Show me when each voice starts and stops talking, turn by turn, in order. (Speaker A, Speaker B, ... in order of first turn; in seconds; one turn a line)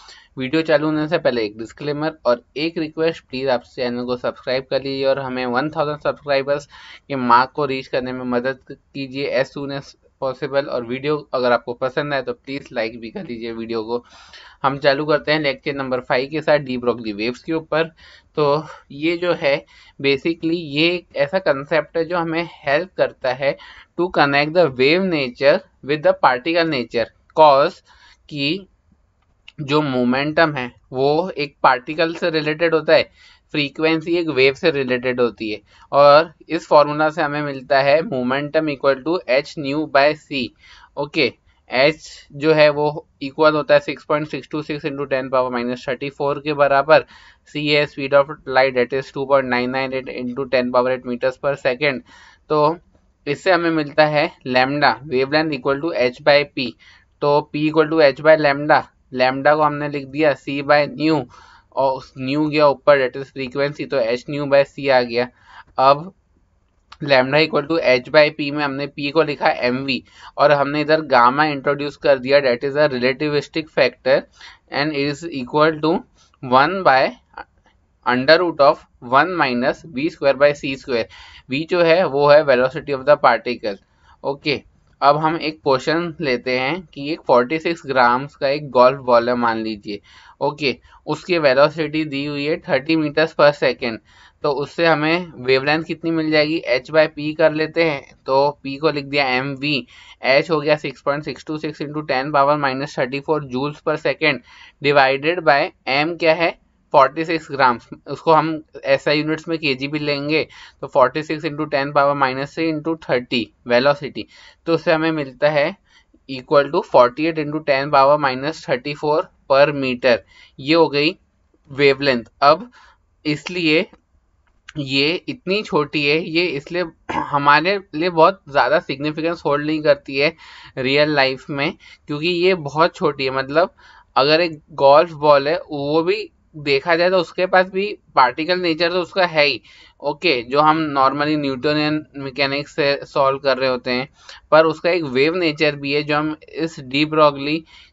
Speaker A: 0.4-14.0
Speaker A: 14.6-28.7
Speaker A: 29.6-66.1
Speaker A: 67.0-77.2
Speaker A: 78.1-115.8
Speaker A: 116.3-121.2
Speaker A: 121.7-122.7
Speaker A: 123.2-123.9
Speaker A: 124.8-147.6